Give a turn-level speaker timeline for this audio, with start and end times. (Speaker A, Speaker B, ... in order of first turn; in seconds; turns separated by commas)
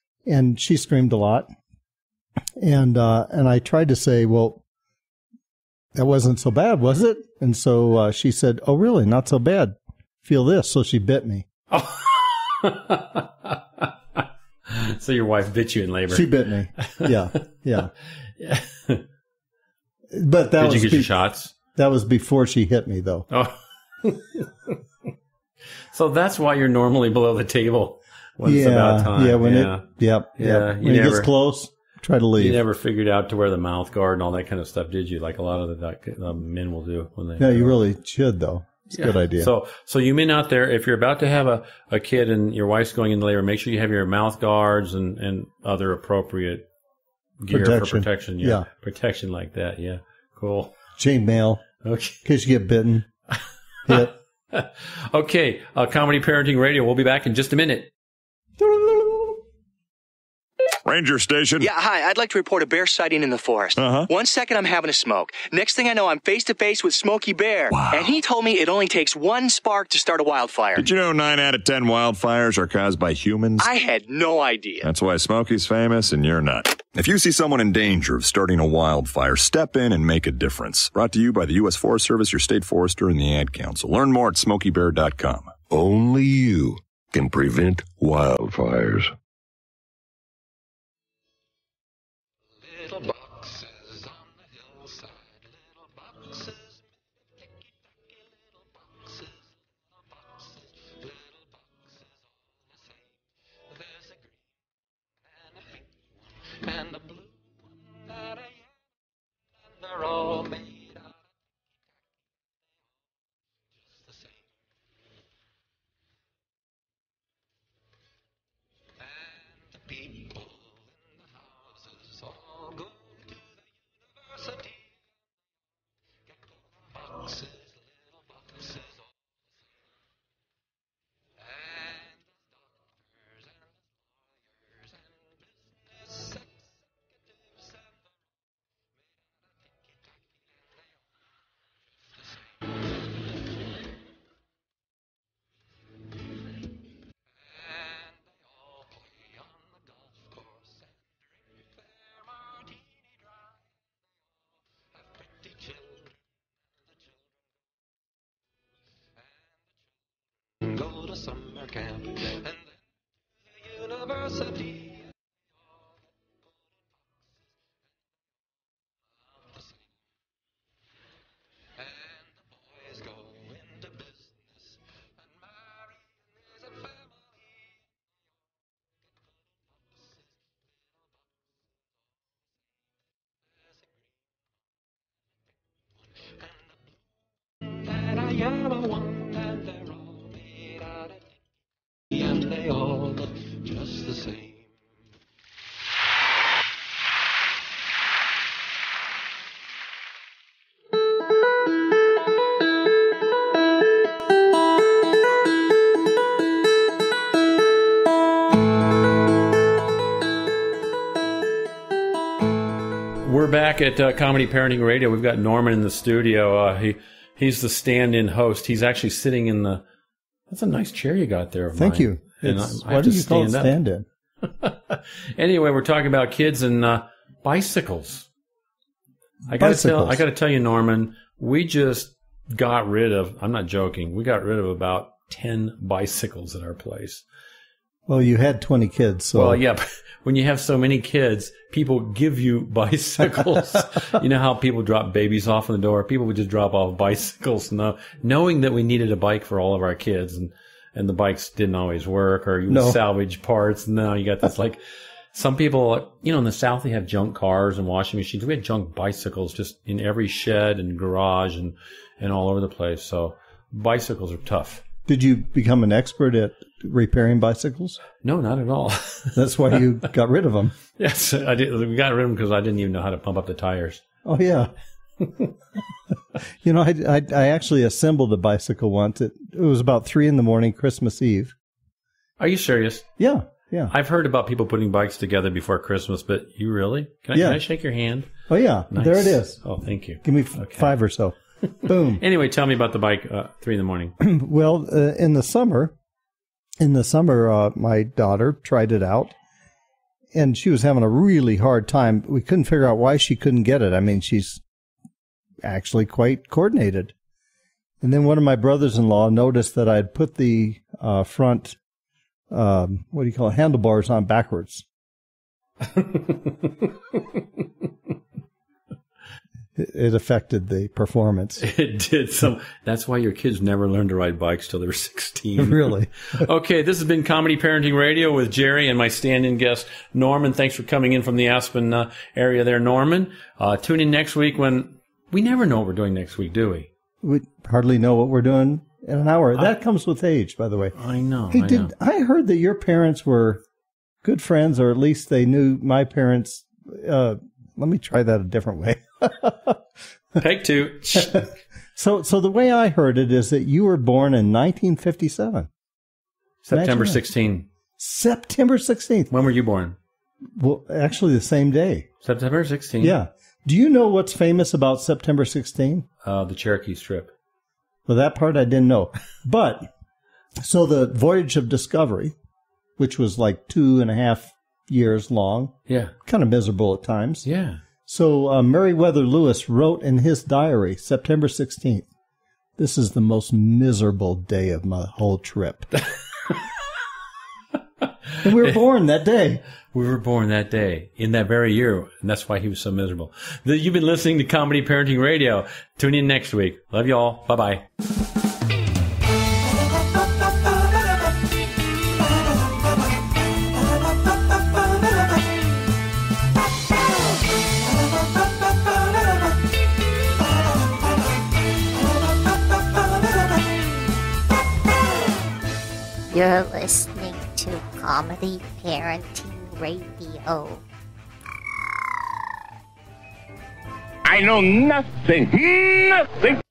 Speaker A: 0.2-1.5, Speaker A: 2.6-4.6, Speaker A: 6.0-11.5, Speaker B: 11.7-13.9, Speaker B: 14.7-17.1, Speaker A: 16.1-17.9, Speaker B: 18.4-19.0, Speaker A: 20.1-23.3, Speaker B: 20.6-21.5, Speaker B: 23.3-24.7, Speaker B: 25.9-31.3, Speaker A: 28.4-32.6, Speaker B: 32.4-37.7, Speaker A: 37.4-39.5, Speaker B: 38.9-46.6, Speaker B: 47.4-50.7, Speaker A: 47.5-48.7, Speaker A: 51.0-51.6, Speaker B: 51.8-52.2, Speaker A: 52.2-53.1, Speaker A: 53.9-54.1, Speaker B: 53.9-57.9, Speaker A: 58.6-59.4, Speaker C: 60.8-61.7, Speaker D: 61.6-70.9, Speaker C: 63.7-64.1, Speaker C: 67.7-68.2, Speaker C: 70.7-73.7, Speaker D: 73.6-74.9, Speaker C: 74.8-85.5, Speaker E: 85.7-89.1, Speaker B: 213.2-219.8, Speaker B: 220.5-223.8, Speaker A: 221.7-224.0, Speaker B: 224.4-228.3, Speaker A: 229.5-230.2, Speaker B: 229.5-237.2, Speaker A: 238.1-239.6, Speaker B: 239.3-254.8, Speaker A: 252.7-253.0, Speaker B: 255.3-264.8, Speaker A: 265.1-268.0, Speaker B: 268.2-269.4, Speaker A: 269.3-270.7, Speaker B: 271.0-274.0, Speaker A: 274.2-274.7, Speaker A: 276.6-281.5, Speaker B: 282.4-283.1, Speaker A: 283.2-283.9, Speaker B: 283.9-288.3, Speaker A: 287.3-292.2, Speaker B: 288.9-290.9, Speaker B: 291.6-294.1, Speaker A: 294.2-295.9, Speaker A: 296.8-299.3, Speaker A: 300.3-304.6, Speaker A: 305.6-307.1, Speaker A: 308.0-311.8, Speaker A: 312.5-314.8, Speaker B: 315.9-317.2, Speaker A: 319.8-321.6, Speaker B: 321.6-336.9, Speaker A: 325.6-326.1, Speaker A: 337.2-340.9, Speaker B: 340.9-341.9, Speaker A: 341.5-343.6, Speaker A: 344.2-349.8, Speaker B: 350.4-351.4, Speaker A: 351.9-355.7, Speaker B: 356.6-357.7, Speaker A: 356.7-357.2, Speaker A: 358.0-359.3, Speaker B: 359.3-359.9, Speaker A: 360.6-362.1, Speaker B: 362.2-363.2, Speaker A: 363.0-366.1, Speaker B: 366.2-367.3, Speaker A: 368.1-369.9, Speaker A: 370.6-372.3, Speaker A: 373.0-377.4, Speaker B: 375.9-376.1, Speaker B: 377.4-377.8, Speaker A: 378.1-382.1, Speaker A: 382.8-385.9, Speaker A: 388.4-389.6, Speaker B: 389.9-397.9, Speaker F: 416.3-420.8, Speaker G: 424.2-426.6